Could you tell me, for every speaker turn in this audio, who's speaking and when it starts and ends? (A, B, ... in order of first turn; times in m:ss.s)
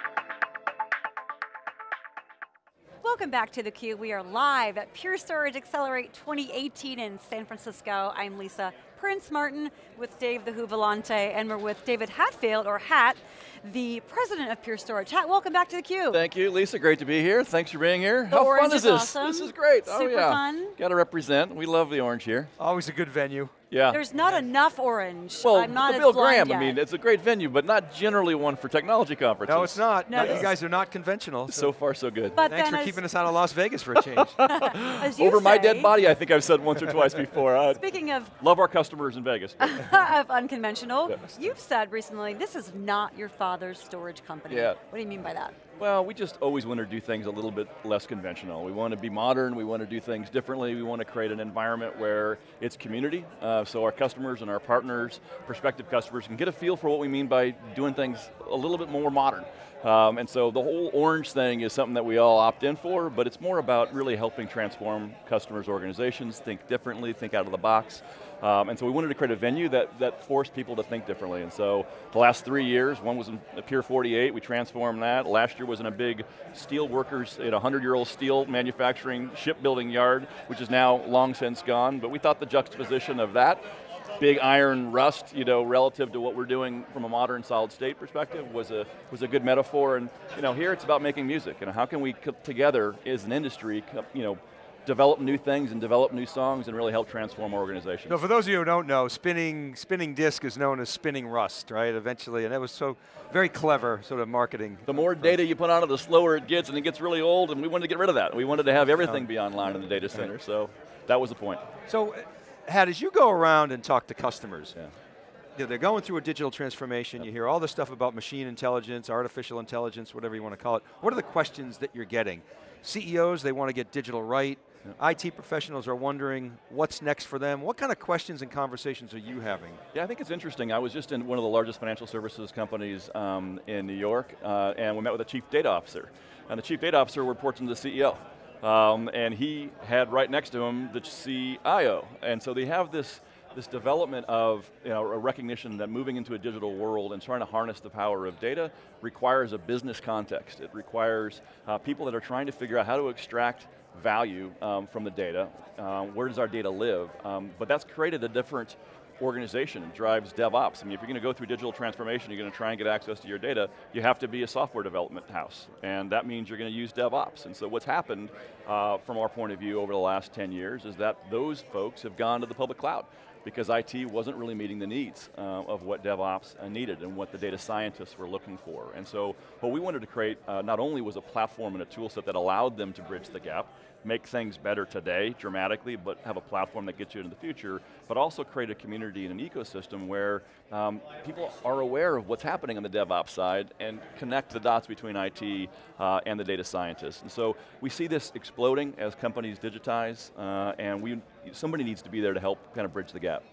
0:03.0-0:16.2 A
0:16.1-0:22.5 B
0:18.3-0:20.7 A
0:22.6-0:23.5 C
0:23.7-0:24.0 B
0:23.9-0:26.8 A
0:25.4-0:30.5 B
0:29.4-0:31.7 C
0:30.1-0:30.4 A
0:31.5-0:32.4 B
0:32.3-0:33.0 A
0:32.4-0:34.4 C
0:34.1-0:37.8 B
0:34.4-0:35.9 A
0:37.7-0:38.3 A
0:38.4-0:40.0 B
0:39.6-0:45.6 A
0:44.5-0:44.8 B
0:45.8-1:23.6 B
1:24.2-1:38.2 B
1:38.1-1:45.3 C
1:44.9-1:51.6 B
1:49.0-1:49.3 C
1:51.9-1:54.8 C
1:55.6-2:09.8 C
2:09.9-3:23.4 B